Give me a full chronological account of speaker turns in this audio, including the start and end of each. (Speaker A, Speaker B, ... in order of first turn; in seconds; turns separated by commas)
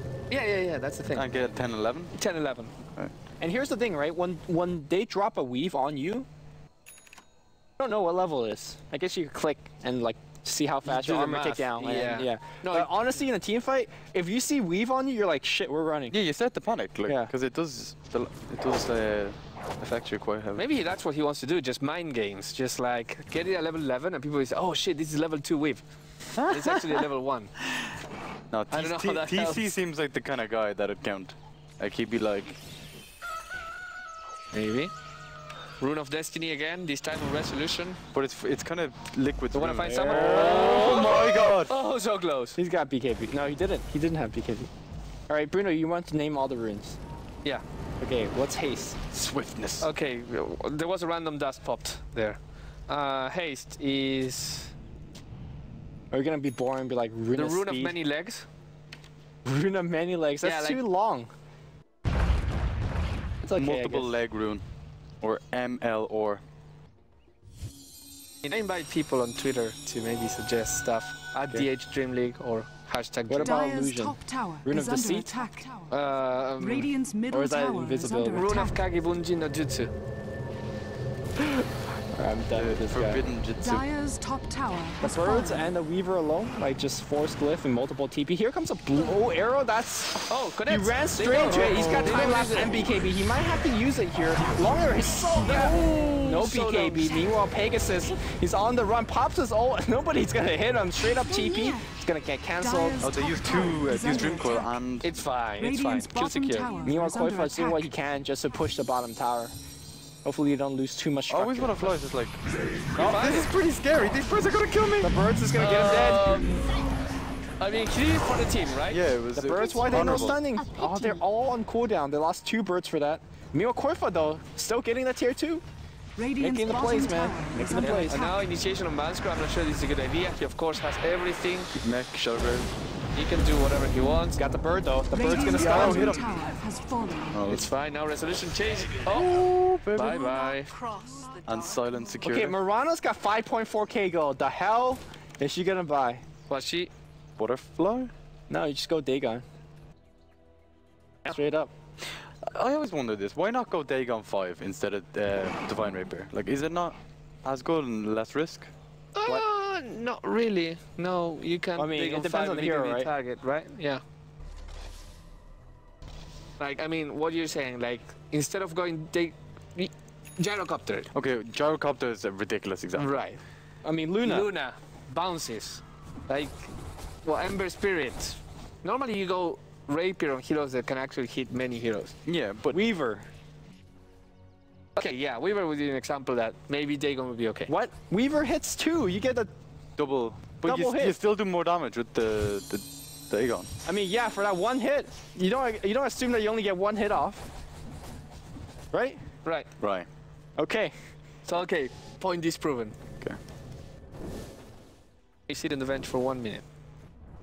Speaker A: 0.3-1.5, Speaker B: 1.1-2.1, Speaker A: 2.1-2.7, Speaker C: 3.4-6.3, Speaker C: 7.8-16.2, Speaker A: 10.8-12.9, Speaker B: 16.1-20.6, Speaker C: 17.1-17.3, Speaker A: 20.6-25.8, Speaker B: 26.4-27.1, Speaker A: 26.4-27.5, Speaker B: 28.5-32.6, Speaker A: 28.7-29.7, Speaker A: 34.5-34.9, Speaker A: 35.8-38.0, Speaker B: 38.1-41.7, Speaker A: 39.5-42.6, Speaker C: 39.8-41.1, Speaker C: 42.6-44.7, Speaker C: 45.3-47.0, Speaker C: 48.0-49.0, Speaker B: 49.1-49.9, Speaker A: 49.8-54.7, Speaker C: 56.1-58.0, Speaker A: 57.3-58.5, Speaker C: 59.4-61.3, Speaker A: 60.4-60.8, Speaker C: 63.4-64.1, Speaker B: 63.5-64.6, Speaker B: 65.2-66.4, Speaker A: 68.5-73.8, Speaker C: 73.3-75.3, Speaker D: 73.4-78.8, Speaker A: 75.9-76.9, Speaker C: 77.3-78.5, Speaker A: 78.3-79.9, Speaker C: 81.4-83.2, Speaker B: 82.5-83.9, Speaker D: 83.6-85.7, Speaker C: 85.0-103.0, Speaker A: 90.3-92.8, Speaker B: 91.6-92.1, Speaker A: 95.4-97.3, Speaker D: 101.4-101.8, Speaker D: 102.6-104.8, Speaker B: 103.0-105.1, Speaker A: 105.0-106.8, Speaker D: 105.6-107.9, Speaker C: 106.8-109.5, Speaker C: 110.2-112.0, Speaker B: 111.3-115.1, Speaker A: 113.0-113.5, Speaker C: 115.0-116.4, Speaker A: 115.6-116.7, Speaker A: 117.6-119.0, Speaker B: 118.9-120.4, Speaker C: 119.3-125.6, Speaker D: 126.2-128.4, Speaker C: 126.4-128.2, Speaker A: 127.8-131.7, Speaker B: 131.8-132.7, Speaker A: 133.1-134.4, Speaker C: 134.4-136.2, Speaker D: 135.1-137.4, Speaker B: 135.5-136.5, Speaker B: 137.3-137.7, Speaker A: 137.5-141.1, Speaker B: 139.1-140.4, Speaker B: 141.4-142.6, Speaker C: 142.2-146.3, Speaker A: 146.5-146.9, Speaker B: 147.4-148.1, Speaker C: 148.5-149.5, Speaker C: 151.2-151.7, Speaker B: 152.4-158.7, Speaker A: 159.2-164.0, Speaker C: 161.8-163.1, Speaker A: 166.6-171.1, Speaker B: 171.1-173.2, Speaker A: 172.9-173.4, Speaker C: 173.8-174.5, Speaker A: 174.2-176.7, Speaker A: 177.2-182.2, Speaker B: 182.3-182.8, Speaker C: 182.7-183.3, Speaker A: 185.0-187.7, Speaker C: 187.7-189.5, Speaker B: 190.0-193.7, Speaker C: 190.6-191.2, Speaker C: 193.8-197.5, Speaker C: 198.9-199.2, Speaker A: 199.4-199.7, Speaker B: 199.8-200.1, Speaker C: 200.6-201.1, Speaker A: 201.5-203.0, Speaker A: 205.5-206.6